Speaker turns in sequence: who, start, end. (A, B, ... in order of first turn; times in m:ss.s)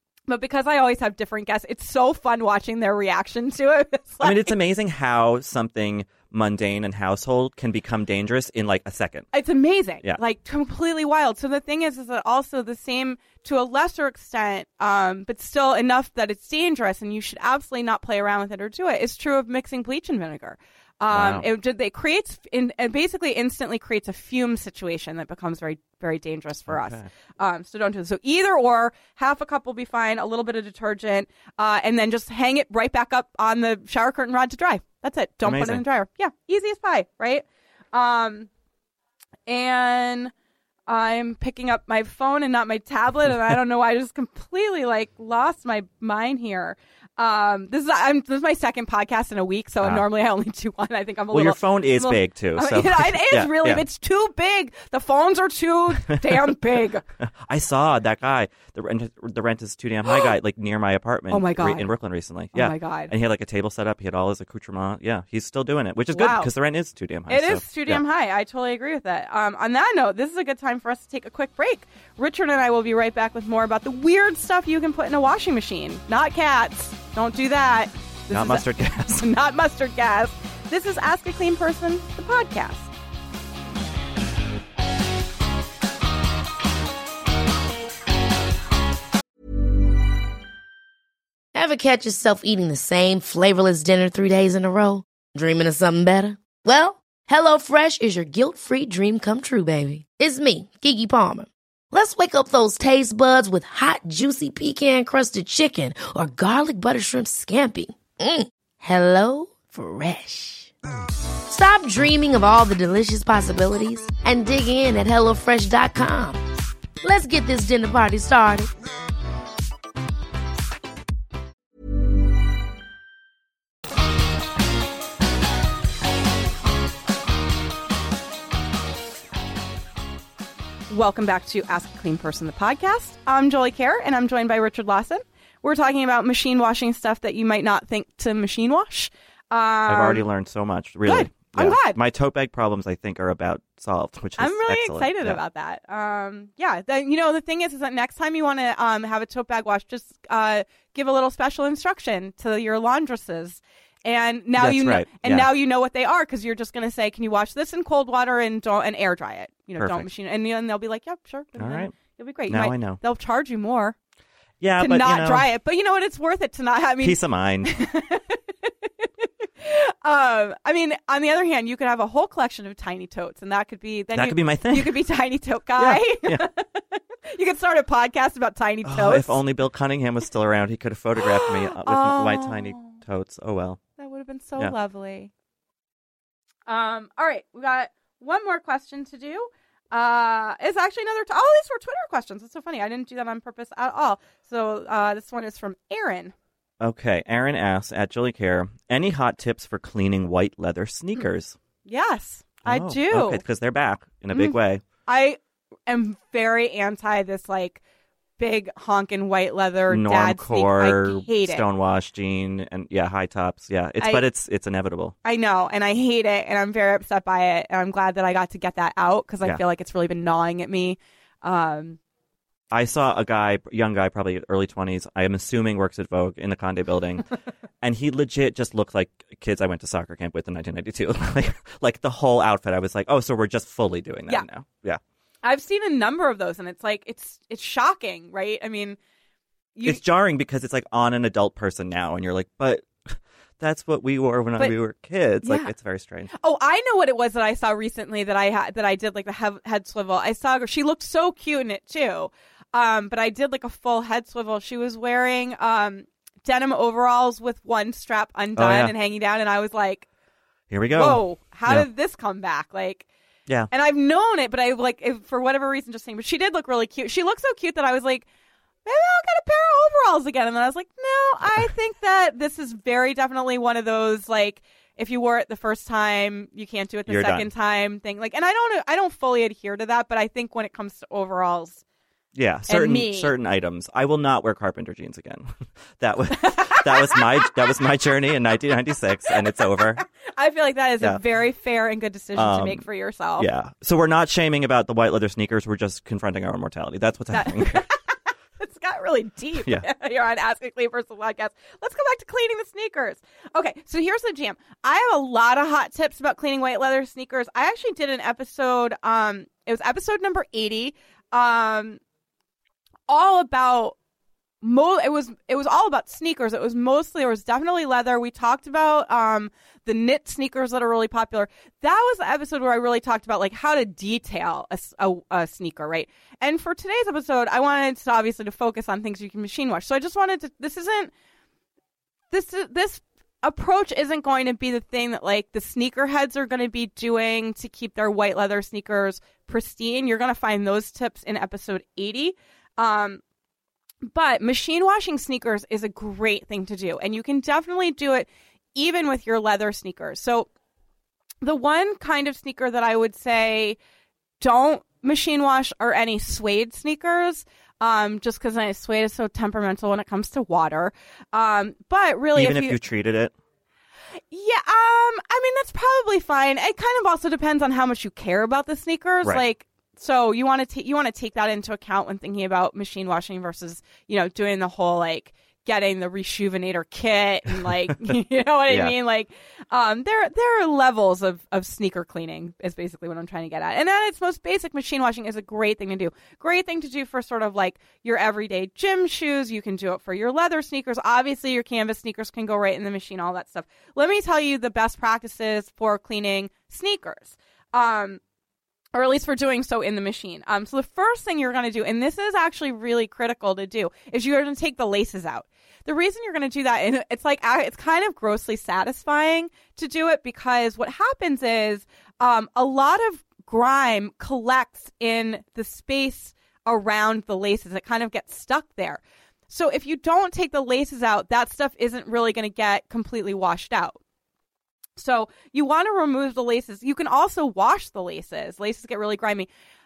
0:00.3-0:04.5 A
0:04.2-0:09.3 B
0:09.3-0:38.5 A
0:21.1-0:21.5 B
0:26.7-0:27.1 B
0:35.4-0:35.8 B
0:39.5-0:40.3 A
0:40.9-0:57.0 A
0:51.3-0:53.8 B
0:56.1-0:56.5 B
0:57.2-1:08.0 B
1:01.3-1:01.8 A
1:02.5-1:03.1 A
1:06.1-1:06.5 A
1:07.3-1:22.9 A
1:18.3-1:19.3 B
1:31.5-1:50.7 C
1:51.5-1:56.4 C
1:57.0-1:58.7 C
2:10.9-2:20.2 A
2:19.9-2:25.4 B
2:21.0-2:22.0 A
2:24.4-2:44.0 A
2:34.6-2:35.5 B
2:39.8-2:40.1 B
2:41.6-2:42.0 B
2:42.5-2:43.0 B
2:44.6-2:45.5 B
2:44.8-2:59.4 A
2:47.0-2:47.7 B
2:54.1-2:55.0 B
2:55.8-2:56.4 B
2:58.8-3:03.8 B
3:01.2-3:03.0 A
3:04.0-3:05.3 A
3:06.7-3:16.3 A
3:16.8-3:21.6 B
3:21.8-3:23.4 A
3:22.6-3:24.8 B
3:24.3-3:27.8 A
3:28.4-3:31.6 A
3:29.9-3:35.1 B
3:35.2-3:42.0 A
3:42.7-3:47.2 B
3:47.8-3:55.0 B
3:55.4-3:59.0 A
3:59.7-4:00.0 A
3:59.8-4:06.3 B
4:05.4-4:05.7 A
4:06.3-4:20.1 A
4:18.6-4:18.9 B
4:20.7-4:21.9 B
4:20.9-4:23.1 A
4:23.7-4:28.2 A
4:28.8-4:41.8 A
4:37.1-4:37.5 B
4:42.3-4:50.0 B
4:42.7-4:43.3 A
4:46.3-4:47.5 A
4:49.7-4:53.5 A
4:52.4-4:52.8 B
4:53.4-4:57.8 B
4:57.3-5:12.0 A
5:13.1-5:13.9 A
5:14.6-5:31.1 A
5:32.3-5:43.2 A
5:44.0-5:50.5 A
5:51.4-5:53.8 A
5:54.4-6:02.8 A
6:02.3-6:03.3 B
6:04.3-6:38.2 A
6:18.7-6:18.9 B
6:38.9-7:04.0 A
7:05.0-7:09.5 A